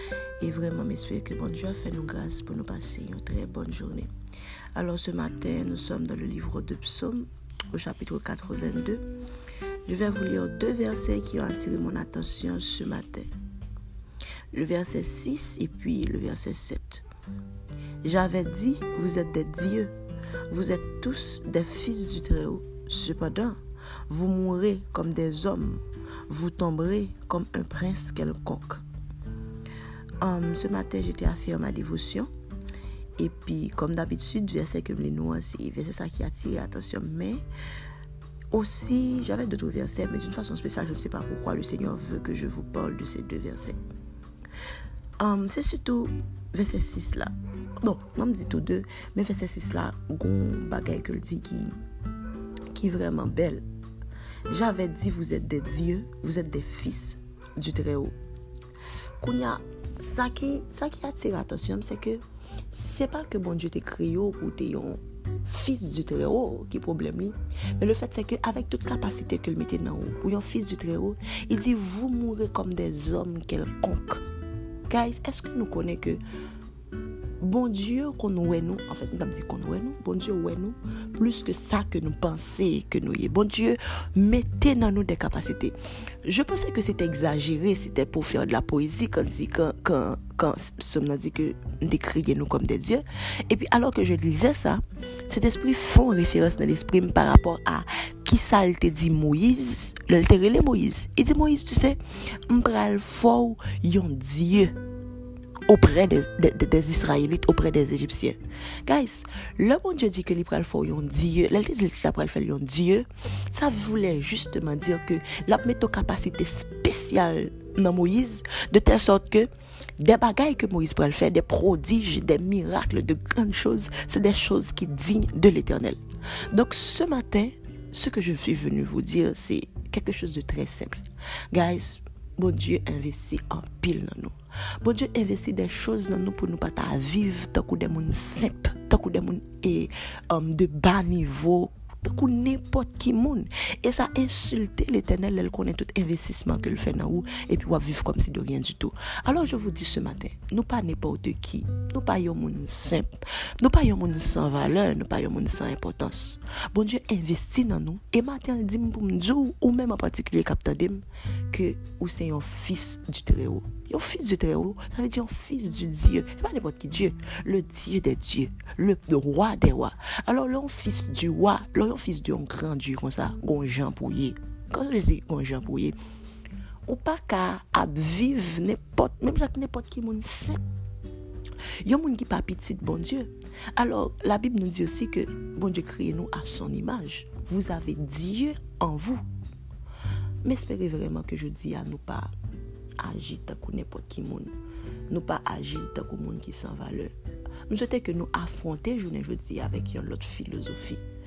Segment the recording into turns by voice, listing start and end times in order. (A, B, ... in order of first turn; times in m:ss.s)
0:00.4-0:04.1 A
0:04.8-0:09.1 A
0:09.9-0:13.3 A
0:14.5-0:17.0 A
0:18.0-0:19.9 A
0:20.5-0:28.8 A
0:30.2-0:32.3 A
0:33.2-0:37.4 A
0:38.5-0:43.8 A
0:45.2-0:51.8 A
0:52.7-0:53.6 A
0:54.5-0:58.2 A
0:59.2-1:14.2 A
1:14.9-1:16.2 A
1:17.4-1:44.8 A
1:45.7-2:56.0 A
2:56.9-3:00.6 A
3:01.8-3:09.2 A
3:10.4-3:12.3 A
3:13.0-3:14.5 A
3:15.1-3:17.1 A
3:17.7-3:21.0 A